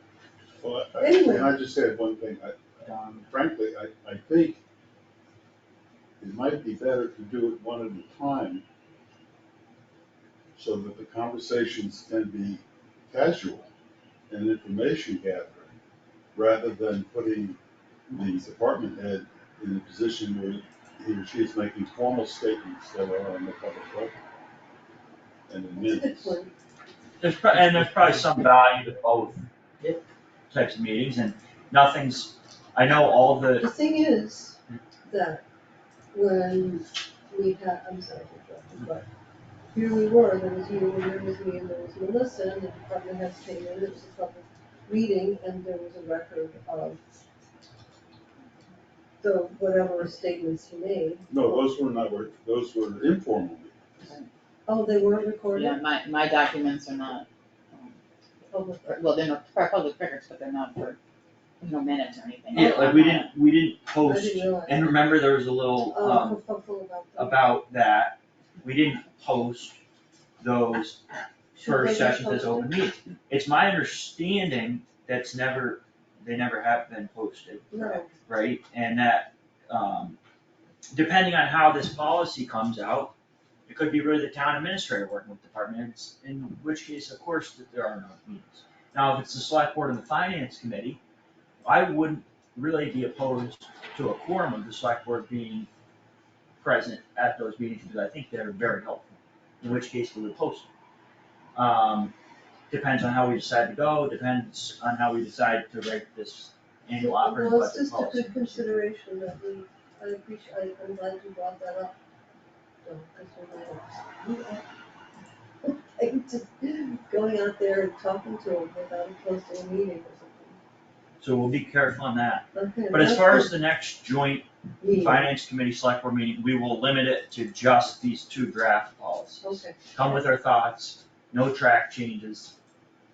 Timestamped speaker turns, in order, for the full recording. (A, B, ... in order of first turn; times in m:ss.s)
0:00.6-0:04.6 A
0:01.0-0:01.5 B
0:06.2-0:08.6 A
0:10.6-0:13.7 A
0:14.3-0:15.7 A
0:16.3-0:17.6 A
0:18.1-0:24.2 A
0:25.5-0:26.4 A
0:25.8-0:26.5 B
0:27.2-0:29.4 C
0:30.5-0:33.7 C
0:33.6-0:34.6 B
0:35.1-0:35.4 B
0:36.1-0:39.1 B
0:39.7-0:47.0 B
0:49.2-0:51.3 B
0:51.3-0:54.0 A
0:54.7-0:55.8 B
0:55.5-0:58.0 D
0:58.5-0:59.0 B
0:58.8-1:01.0 D
1:01.6-1:03.3 D
1:02.5-1:06.4 C
1:04.0-1:04.8 B
1:05.9-1:07.4 B
1:07.2-1:09.8 C
1:10.4-1:20.2 C
1:11.6-1:12.7 B
1:17.7-1:18.1 B
1:20.9-1:23.1 C
1:23.7-1:31.0 C
1:31.6-1:35.7 C
1:36.6-1:40.7 C
1:41.5-1:42.1 C
1:42.7-1:48.7 C
1:46.9-1:51.9 B
1:52.8-1:54.6 B
1:55.6-2:00.6 B
2:01.2-2:12.5 C
2:02.5-2:03.5 B
2:04.8-2:05.3 B
2:09.4-2:10.2 B